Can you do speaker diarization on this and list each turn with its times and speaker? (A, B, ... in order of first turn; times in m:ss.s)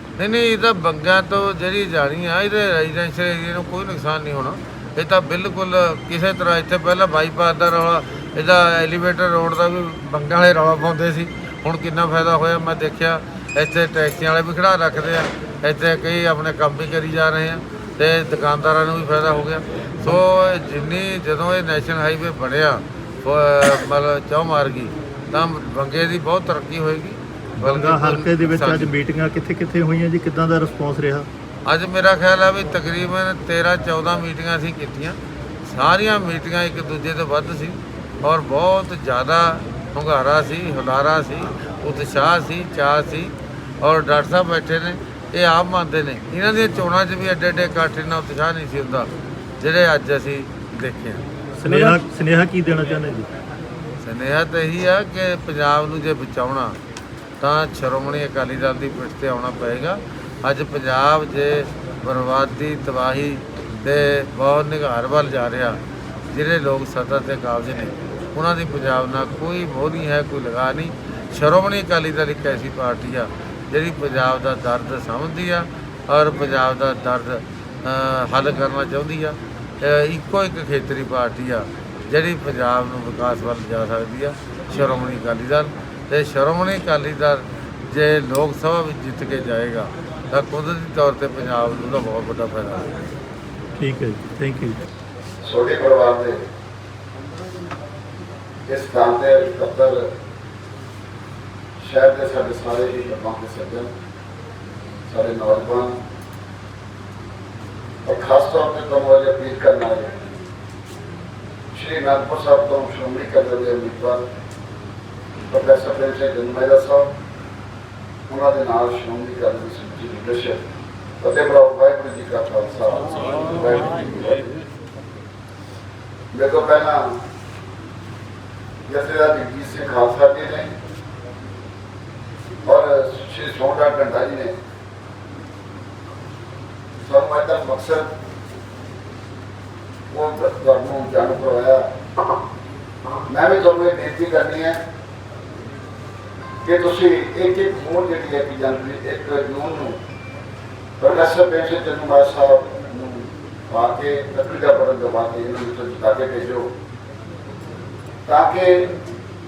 0:00.2-0:28.9 A
0:27.6-0:31.3 B
0:31.6-0:52.0 A
0:51.6-0:53.3 B
0:54.0-0:56.8 A
0:57.4-1:05.8 A
1:06.3-1:33.0 A
1:33.8-1:34.8 B
1:35.4-1:36.4 C
1:38.7-1:40.0 C
1:41.8-1:43.9 C
1:45.1-1:46.0 C
1:48.0-1:50.2 C
1:51.7-1:54.2 C
1:55.5-1:57.1 C
1:58.3-2:00.6 C
2:01.2-2:04.6 C
2:06.3-2:07.2 C
2:08.9-2:10.7 C
2:12.6-2:14.5 C
2:17.0-2:18.1 C
2:20.1-2:21.9 C
2:23.3-2:24.8 C
2:26.6-2:30.0 C
2:31.0-2:36.7 C
2:38.3-2:38.9 C